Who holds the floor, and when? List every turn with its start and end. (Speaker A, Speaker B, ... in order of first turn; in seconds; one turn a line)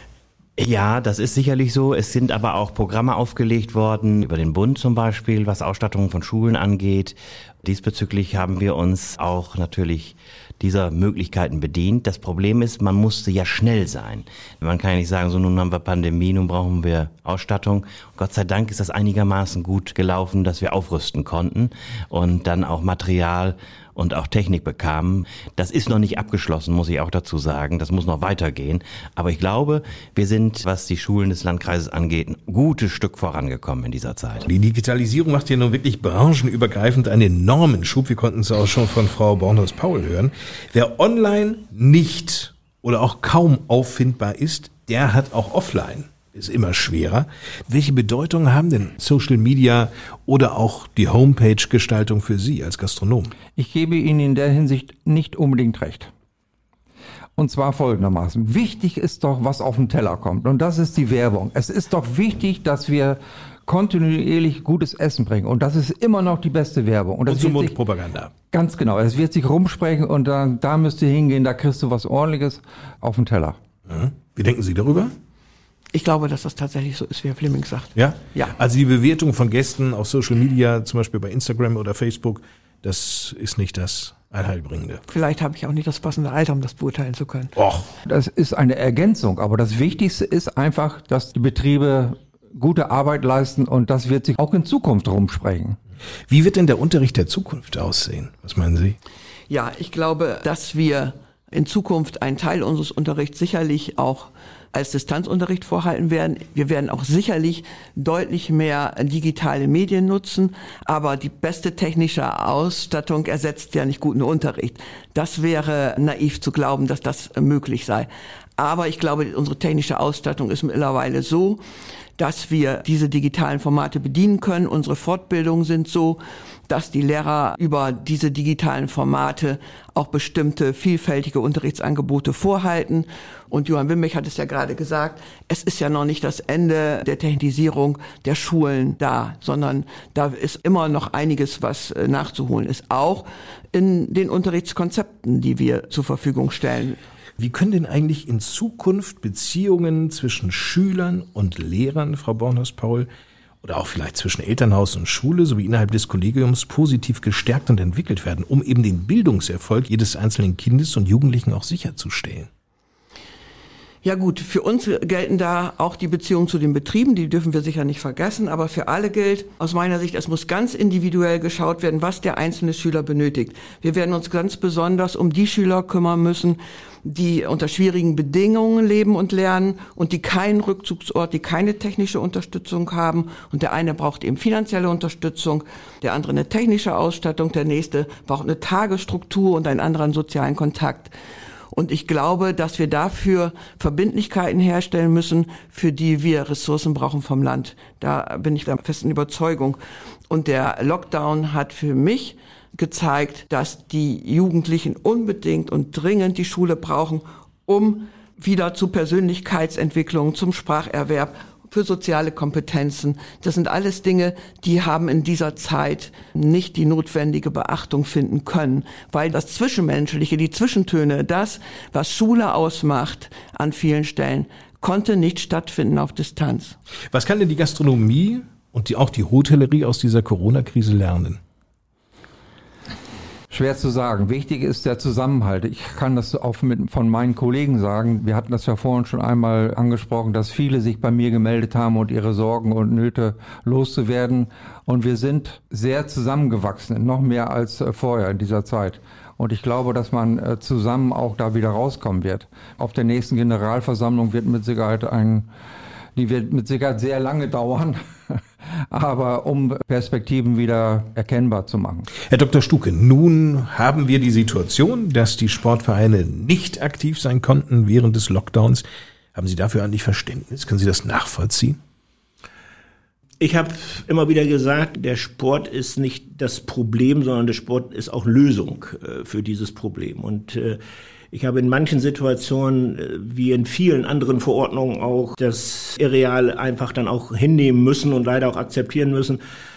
Speaker A: 0.6-34.5
Speaker B: 34.4-53.3
Speaker C: 53.5-56.1
Speaker C: 57.4-67.8
Speaker B: 67.3-68.3
Speaker C: 68.5-73.6
Speaker B: 73.9-75.1
Speaker D: 75.9-78.5
Speaker B: 78.0-85.0
Speaker D: 85.1-87.5
Speaker B: 87.5-87.9
Speaker C: 88.0-95.8
Speaker B: 96.3-99.0
Speaker D: 99.5-121.6
Speaker D: 122.2-147.0
Speaker B: 147.4-153.1
Speaker B: 153.6-162.5
Speaker D: 164.0-191.1
Speaker D: 191.7-199.8
Speaker D: 200.3-226.8
Speaker B: 227.1-231.4
Speaker C: 233.5-255.5
Speaker C: 256.1-262.1
Speaker B: 262.3-271.8
Speaker E: 273.4-280.8
Speaker E: 281.3-289.4